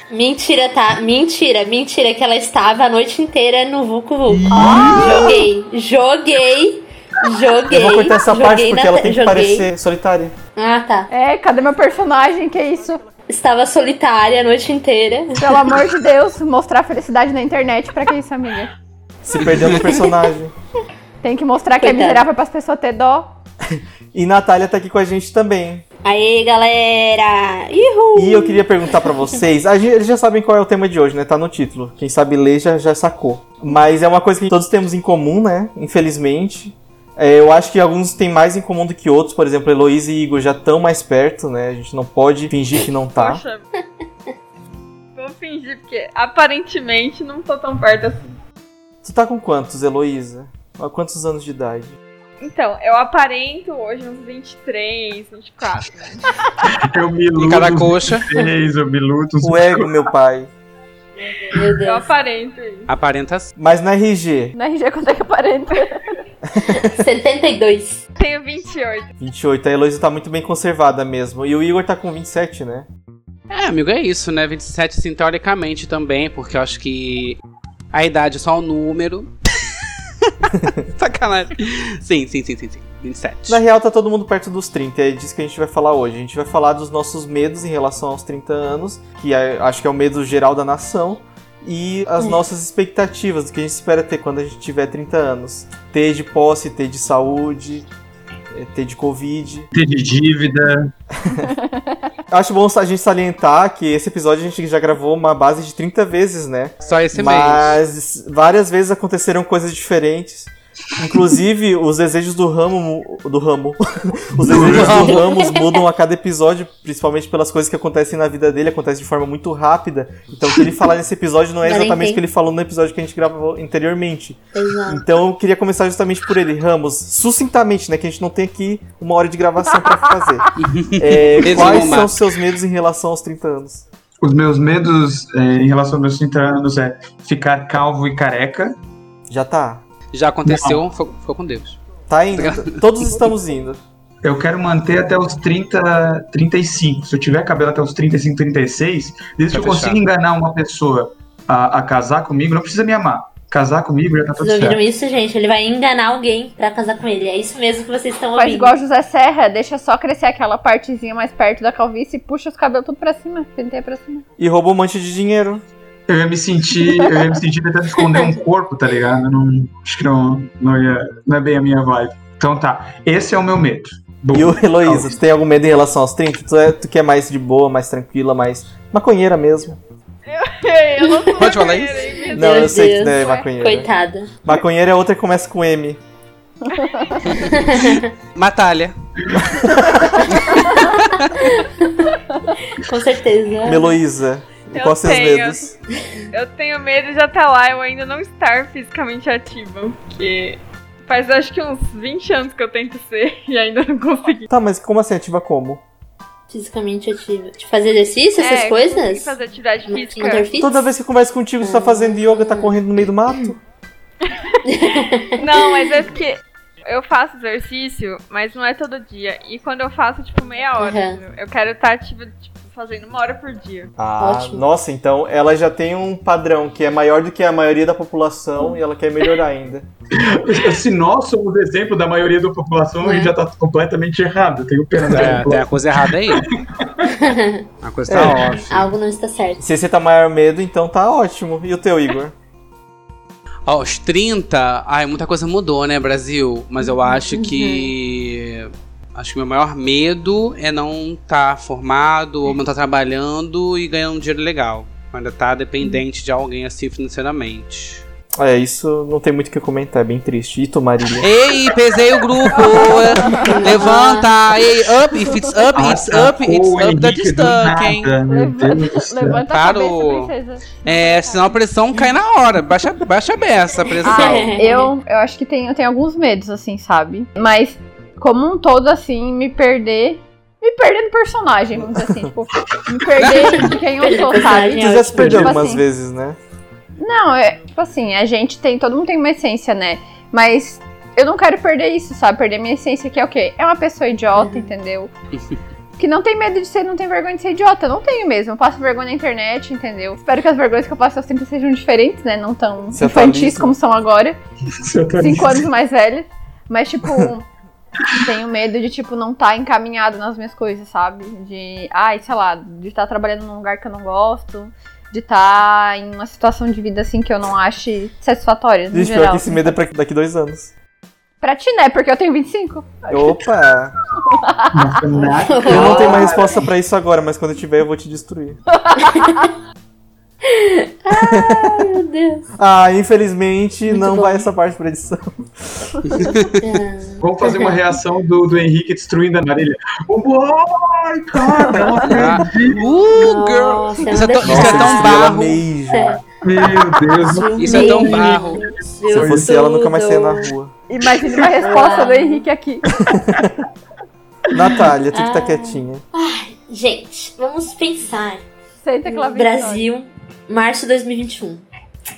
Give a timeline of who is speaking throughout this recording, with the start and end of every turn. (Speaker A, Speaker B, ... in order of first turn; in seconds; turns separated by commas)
Speaker A: 0.1-9.7, Speaker B: 4.3-5.5, Speaker C: 4.6-5.0, Speaker D: 4.7-5.3, Speaker E: 7.7-10.3, Speaker A: 10.6-11.1, Speaker C: 11.1-13.0, Speaker A: 13.3-15.8, Speaker C: 15.4-18.7, Speaker E: 19.2-20.5, Speaker D: 19.4-20.0, Speaker C: 21.2-23.3, Speaker A: 21.8-22.2, Speaker E: 24.1-25.8, Speaker A: 26.0-29.2, Speaker E: 28.1-43.4, Speaker F: 43.1-43.6, Speaker F: 45.1-48.3, Speaker E: 49.0-52.0, Speaker F: 52.4-56.3, Speaker B: 56.6-60.0, Speaker D: 57.4-58.3, Speaker E: 59.4-60.5, Speaker A: 61.2-62.1, Speaker F: 61.7-62.9, Speaker D: 62.9-63.5, Speaker E: 63.6-64.5, Speaker C: 64.5-66.0, Speaker A: 66.7-68.0, Speaker F: 68.2-69.1, Speaker E: 69.2-72.9, Speaker D: 73.5-77.4, Speaker D: 77.9-79.3, Speaker D: 80.5-83.6, Speaker E: 83.5-97.9, Speaker E: 98.5-99.7, Speaker B: 99.7-100.9, Speaker E: 101.2-101.5, Speaker C: 101.4-101.9, Speaker E: 102.3-130.5, Speaker D: 106.8-107.8, Speaker B: 114.4-115.0, Speaker D: 114.6-115.2, Speaker A: 114.9-115.8, Speaker A: 121.6-122.2, Speaker A: 124.5-125.0, Speaker D: 130.6-132.1, Speaker E: 131.0-133.8, Speaker B: 134.2-138.7, Speaker E: 139.3-139.8, Speaker D: 140.1-141.8, Speaker B: 140.4-140.8, Speaker E: 142.1-143.8, Speaker D: 142.3-143.3, Speaker B: 144.2-154.8, Speaker D: 149.5-150.0, Speaker A: 154.4-158.8, Speaker C: 158.3-164.2, Speaker E: 164.4-165.6, Speaker B: 166.1-175.1, Speaker A: 168.0-168.3, Speaker E: 174.3-179.8, Speaker F: 180.3-182.7, Speaker A: 181.0-181.6, Speaker D: 181.4-182.0, Speaker A: 182.3-184.4, Speaker E: 182.3-183.9, Speaker C: 183.1-183.5, Speaker E: 184.4-186.0, Speaker C: 186.7-187.2, Speaker D: 187.2-188.9, Speaker A: 187.4-188.0, Speaker E: 189.3-190.3, Speaker D: 190.3-191.5, Speaker A: 191.4-191.7, Speaker A: 192.7-193.9, Speaker E: 193.6-195.7, Speaker F: 194.7-195.7, Speaker F: 196.3-204.4, Speaker E: 204.5-205.8, Speaker A: 206.5-209.3, Speaker F: 208.3-210.5, Speaker A: 209.8-210.8, Speaker E: 210.5-213.6, Speaker A: 211.6-212.8, Speaker A: 214.7-216.0, Speaker F: 215.4-223.9, Speaker A: 220.8-221.2, Speaker E: 224.0-229.9, Speaker A: 224.2-224.7, Speaker B: 230.3-237.2, Speaker A: 233.0-233.3, Speaker D: 235.0-236.5, Speaker A: 237.1-237.7, Speaker D: 237.8-238.9, Speaker E: 238.1-238.8, Speaker A: 238.7-239.6, Speaker E: 239.6-242.3, Speaker D: 243.7-258.0, Speaker A: 246.8-247.9, Speaker E: 258.4-261.3, Speaker D: 261.2-268.1, Speaker C: 262.6-263.6, Speaker A: 262.7-264.3, Speaker B: 265.7-269.4, Speaker C: 268.3-271.6, Speaker D: 269.5-270.3, Speaker D: 270.8-274.5, Speaker C: 274.0-285.8, Speaker A: 274.0-274.9, Speaker E: 282.0-282.3, Speaker D: 283.2-283.5, Speaker A: 283.4-285.6, Speaker E: 284.8-286.4, Speaker B: 285.2-285.6, Speaker C: 287.0-295.1, Speaker A: 294.3-294.7, Speaker C: 296.0-304.4, Speaker E: 302.9-303.8, Speaker B: 304.8-305.6, Speaker C: 305.2-307.5, Speaker C: 308.1-319.8, Speaker E: 318.9-320.7, Speaker C: 321.4-323.5, Speaker E: 323.1-323.9, Speaker C: 324.3-324.8, Speaker B: 324.7-326.6, Speaker A: 325.4-326.6, Speaker E: 325.6-328.6, Speaker C: 328.8-329.4, Speaker A: 329.0-329.5, Speaker A: 330.4-332.4, Speaker E: 331.2-331.7, Speaker E: 332.6-336.3, Speaker A: 333.9-334.5, Speaker D: 336.1-336.6, Speaker A: 336.6-337.8, Speaker B: 337.2-342.9, Speaker D: 342.0-345.6, Speaker A: 343.1-345.2, Speaker E: 344.4-346.2, Speaker A: 345.9-346.2, Speaker B: 346.4-348.6, Speaker A: 347.2-350.5, Speaker D: 347.6-348.6, Speaker E: 349.1-350.7, Speaker B: 349.1-349.5, Speaker C: 350.9-352.8, Speaker A: 351.6-352.4, Speaker E: 353.0-353.6, Speaker E: 354.5-356.0, Speaker A: 355.1-358.4, Speaker C: 358.8-359.8, Speaker A: 359.0-361.6